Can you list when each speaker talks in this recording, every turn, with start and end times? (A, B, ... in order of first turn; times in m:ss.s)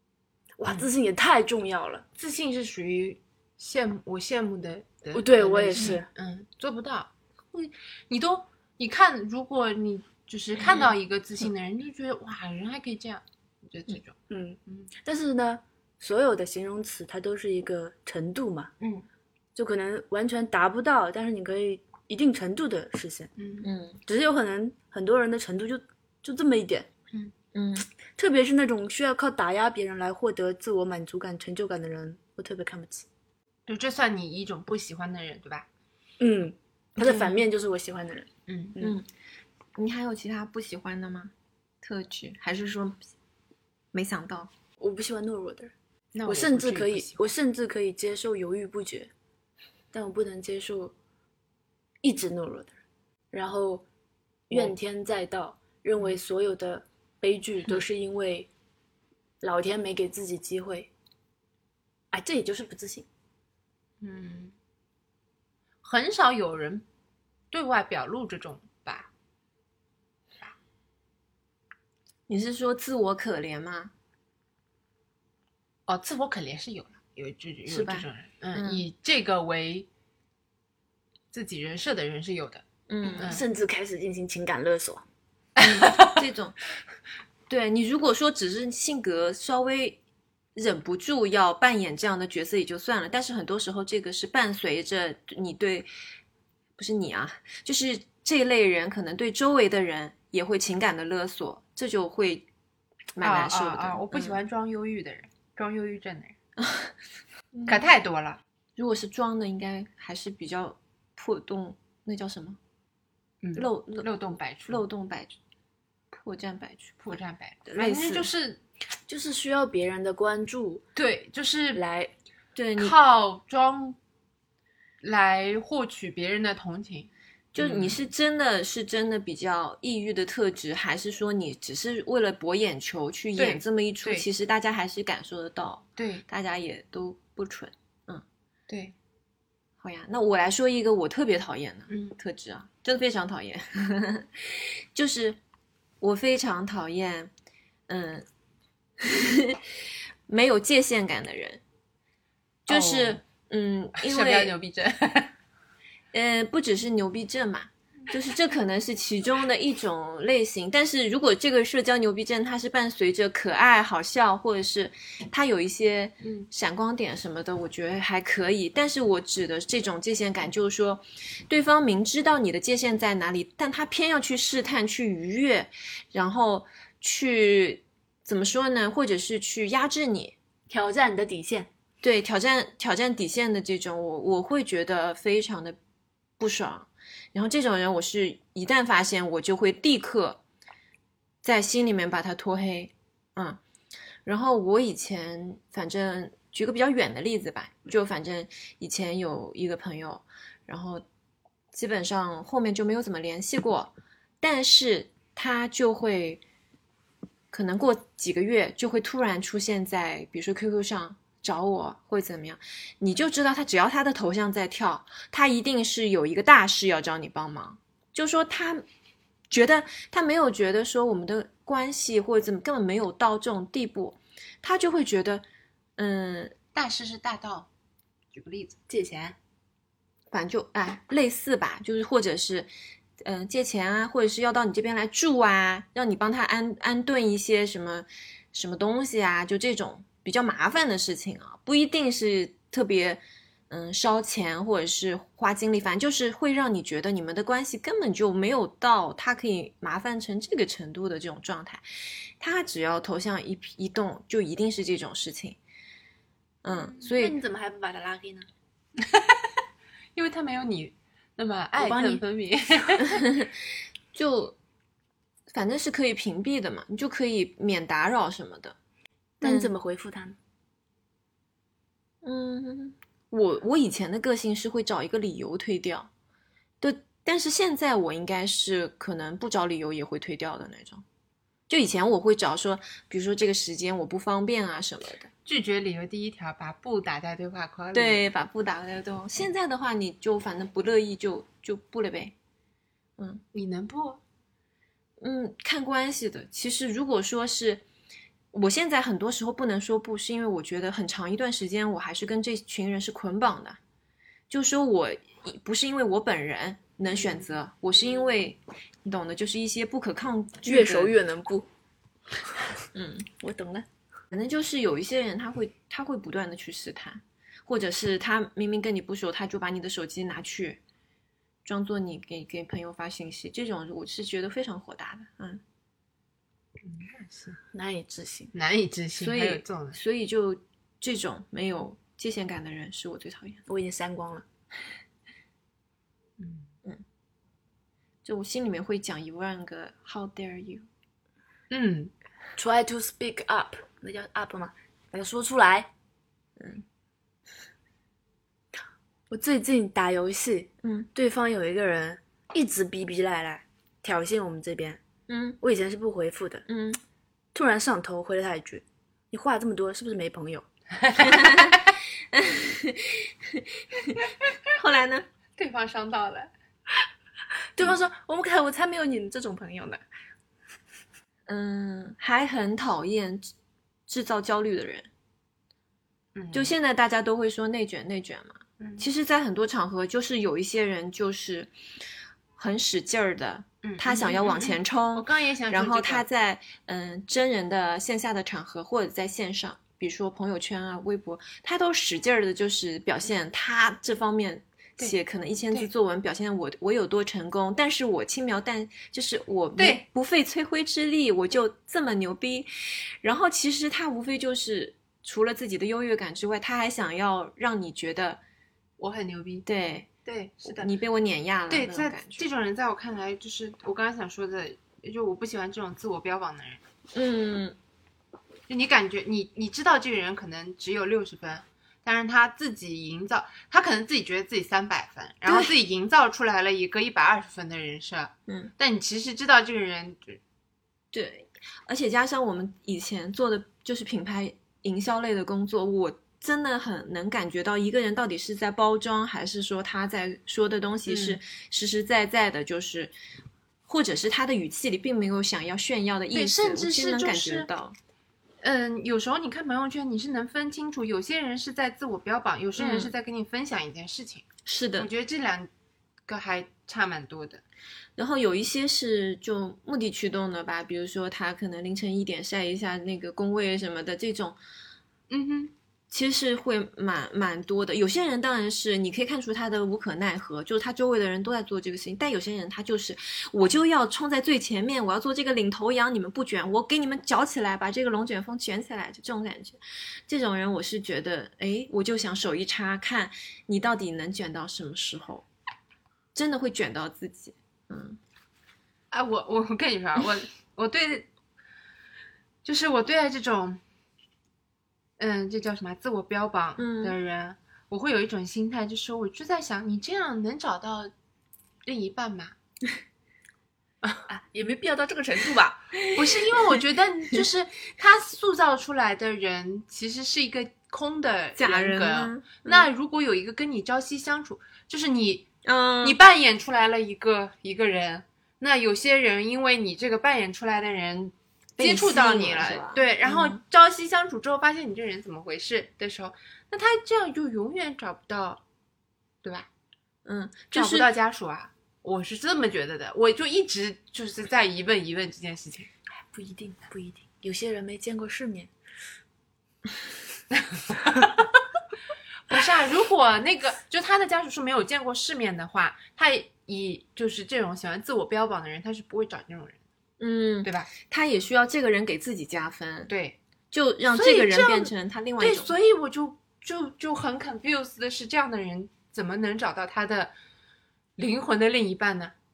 0:00.6-0:02.0 A
0:02.2-0:14.2 B
0:05.1-0:06.1 A
0:14.3-0:18.7 A
0:18.8-0:19.1 B
0:19.6-0:23.3 A
0:23.4-0:23.7 B
0:23.6-0:24.0 C
0:24.1-0:26.9 A
0:27.5-0:27.9 C
0:28.2-0:33.1 A
0:33.7-0:35.7 B
0:36.2-0:39.0 A
0:37.0-0:37.4 C
0:38.5-0:38.8 B
0:38.8-0:39.1 C
0:39.8-0:43.1 C
0:43.9-0:44.5 C
0:44.8-0:45.7 A
0:46.2-0:47.2 B
0:46.3-0:49.1 A
0:49.9-0:51.0 A
0:52.0-0:52.8 A
0:53.3-0:53.8 A
0:54.5-0:58.5 A
0:59.4-1:00.9 A
1:02.1-1:03.1 A
1:04.0-1:04.5 B
1:05.8-1:06.8 B
1:07.5-1:09.1 B
1:12.3-1:13.9 C
1:15.9-1:19.9 B
1:17.7-1:18.8 C
1:21.3-1:22.6 B
1:22.9-1:23.3 C
1:23.2-1:23.4 B
1:23.2-1:25.1 A
1:25.6-1:26.1 B
1:25.6-1:26.6 C
1:27.5-1:30.0 C
1:30.6-1:35.9 C
1:36.8-1:42.4 C
1:43.2-1:44.4 C
1:43.2-1:46.4 B
1:46.6-1:46.9 C
1:47.5-1:47.9 C
1:47.7-1:48.4 B
1:48.8-1:52.6 C
1:53.4-1:54.8 B
1:53.6-1:54.1 C
1:54.7-1:55.3 C
1:56.1-1:57.2 C
1:57.0-1:58.6 B
1:57.7-1:58.3 C
1:59.1-2:00.8 A
2:01.0-2:01.8 B
2:01.8-2:02.1 A
2:02.6-2:03.0 C
2:02.8-2:04.0 B
2:05.0-2:08.0 B
2:07.5-2:18.2 C
2:13.4-2:14.3 B
2:16.0-2:16.2 B
2:18.7-2:18.9 B
2:19.8-2:25.4 C
2:21.9-2:22.2 B
2:26.0-2:27.3 C
2:27.9-2:28.3 C
2:29.0-2:29.6 C
2:30.3-2:31.6 C
2:32.7-2:34.6 C
2:32.7-2:33.2 B
2:34.0-2:35.3 B
2:36.1-3:00.4 C
2:46.2-2:46.5 B
3:00.7-3:01.7 A
3:02.0-3:05.8 C
3:06.4-3:10.4 C
3:11.4-3:13.6 C
3:14.2-3:21.0 C
3:21.7-3:26.4 C
3:27.5-3:38.8 C
3:39.5-3:45.4 C
3:46.0-3:46.6 C
3:46.8-3:47.7 B
3:48.3-3:48.8 B
3:48.9-3:49.4 A
3:50.3-3:52.7 C
3:53.2-4:11.8 C
4:12.4-4:15.6 C
4:16.6-4:17.4 C
4:16.9-4:18.5 A
4:19.0-4:19.5 B
4:20.2-4:23.2 B
4:21.8-4:22.2 A
4:23.1-4:23.5 C
4:24.1-4:24.6 C
4:25.5-4:28.8 C
4:29.4-4:30.4 A
4:29.4-4:29.7 C
4:32.2-4:36.1 C
4:36.8-4:41.0 C
4:41.7-4:45.3 C
4:45.5-4:48.2 B
4:47.9-4:52.3 C
4:53.5-4:54.2 B
4:55.2-4:57.8 C
4:58.5-5:03.8 C
5:04.5-5:11.2 C
5:07.2-5:07.4 B
5:10.6-5:11.7 A
5:12.9-5:13.3 C
5:13.4-5:13.9 A
5:14.3-5:20.8 C
5:21.6-5:25.6 C
5:26.8-5:27.6 B
5:27.7-5:28.5 A
5:28.5-5:30.0 B
5:29.2-5:33.6 C
5:33.7-5:34.4 A
5:36.4-5:36.7 B
5:38.2-5:40.9 C
5:41.7-5:42.1 B
5:42.6-5:45.9 A
5:46.6-5:46.8 C
5:49.3-5:55.0 A
5:50.8-5:51.1 C
5:55.3-5:55.6 C
5:55.6-5:56.6 A
5:56.7-5:57.0 C
5:57.5-6:00.7 A
6:01.0-6:01.8 B
6:01.2-6:05.3 C
6:05.6-6:06.5 B
6:07.8-6:10.0 A
6:11.5-6:13.5 C
6:14.1-6:15.1 C
6:16.4-6:16.7 B
6:16.5-6:21.7 C
6:18.8-6:19.1 B
6:22.6-6:48.4 C
6:23.8-6:26.3 B
6:39.8-6:40.0 B
6:49.0-6:49.7 B
6:49.7-6:50.1 C
6:50.2-6:50.9 B
6:50.7-6:52.4 C
6:51.7-6:56.8 B
6:57.1-6:57.8 C
6:58.7-7:10.4 B
7:05.5-7:05.7 C
7:11.1-7:23.1 C
7:21.1-7:21.4 B
7:23.9-7:28.0 C
7:26.3-7:27.7 B
7:28.6-7:34.5 B
7:32.8-7:33.1 C
7:34.7-7:35.1 C
7:35.0-7:35.7 B
7:36.3-7:37.6 B
7:38.2-7:44.6 C
7:45.3-7:45.7 B
7:46.1-8:05.4 C
8:06.3-8:08.2 C
8:09.1-8:11.3 B
8:12.6-8:13.8 B
8:15.2-8:21.1 B
8:16.8-8:17.2 C
8:21.8-8:22.6 B
8:24.3-8:25.9 A
8:26.1-8:35.5 B
8:31.6-8:32.9 C
8:35.6-8:36.2 C
8:36.0-8:48.6 B
8:41.8-8:43.6 C
8:49.4-8:49.7 B
8:50.3-8:51.1 C
8:50.7-8:55.9 B
8:56.3-8:58.7 A
9:00.5-9:01.5 B
9:02.5-9:09.8 B
9:10.2-9:13.1 C
9:10.6-9:10.9 B
9:13.1-9:13.4 B
9:13.7-9:15.7 C
9:14.1-9:20.3 B
9:21.2-9:22.3 B